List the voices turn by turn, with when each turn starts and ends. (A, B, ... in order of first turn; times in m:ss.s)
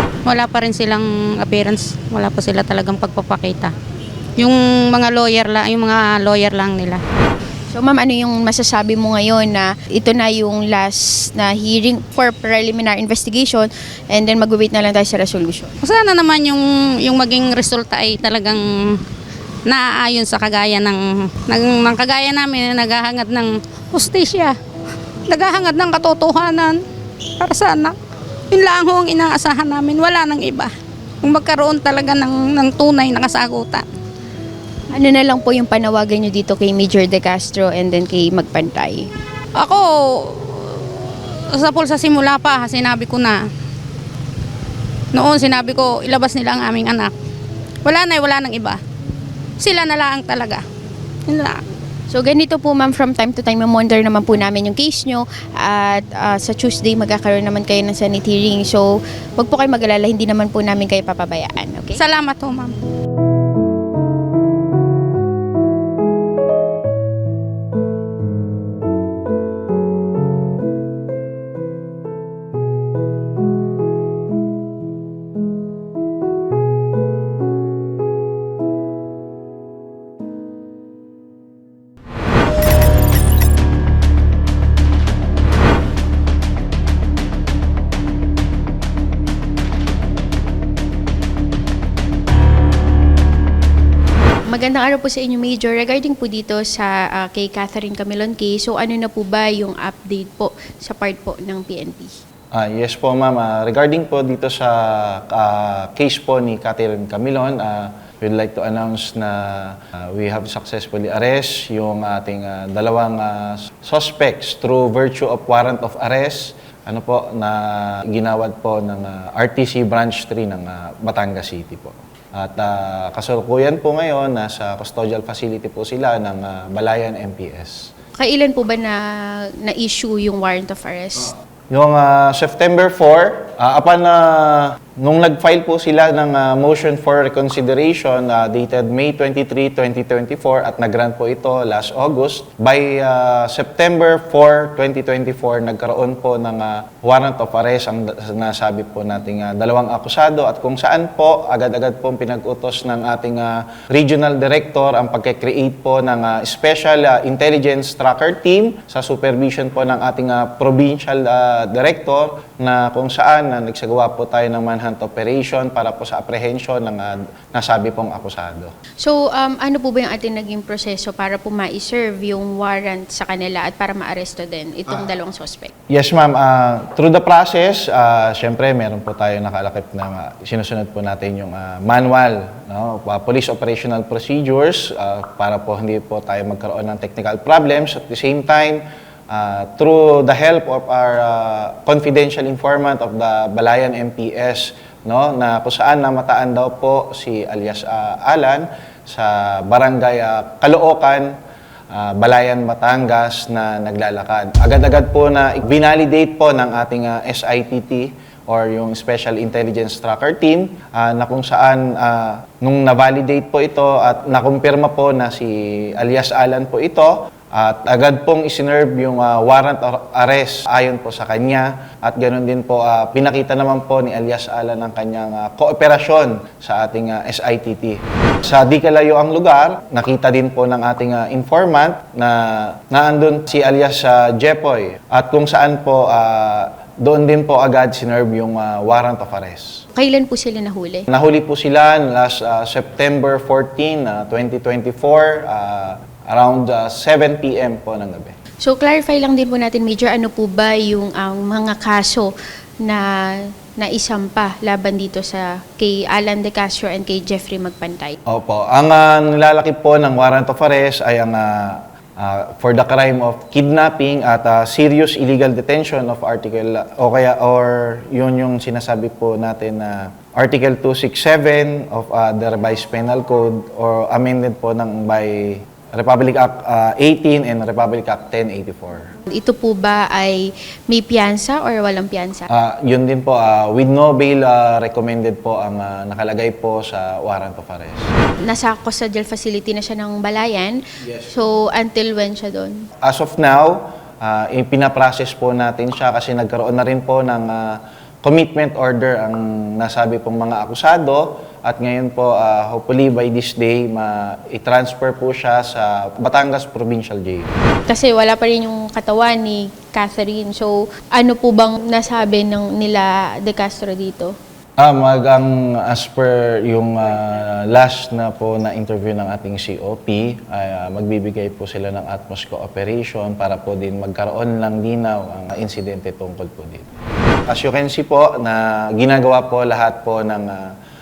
0:00.3-0:03.7 A
0:04.4-0:07.0 A
0:07.7-0:15.7 B
0:15.8-0:19.0 A
0:19.7-0:24.6 A
0:25.3-0:26.8 A
0:27.4-0:28.0 A
0:28.5-0:30.7 A
0:31.2-0:33.8 A
0:34.9-0:39.1 B
0:39.6-0:43.4 A
0:45.1-0:47.1 A
0:47.8-0:48.8 A
0:49.6-0:50.6 A
0:51.3-0:51.6 A
0:52.1-1:02.0 B
1:02.0-1:02.8 A
1:34.5-1:42.2 B
1:42.5-2:07.9 C
2:08.2-2:11.3 B
2:11.7-2:48.7 C
2:49.0-2:55.7 B
2:55.9-3:21.4 C
3:21.9-3:59.8 C
4:00.0-4:01.1 B
4:01.1-4:08.4 C
4:08.6-4:12.3 B
4:13.8-4:18.2 B
4:18.3-4:39.1 C
4:39.3-4:42.5 B
4:42.5-4:48.1 C
4:48.4-4:52.8 B
4:53.0-5:07.5 C
5:07.9-5:14.3 B
5:14.8-5:27.0 C
5:27.5-5:30.8 C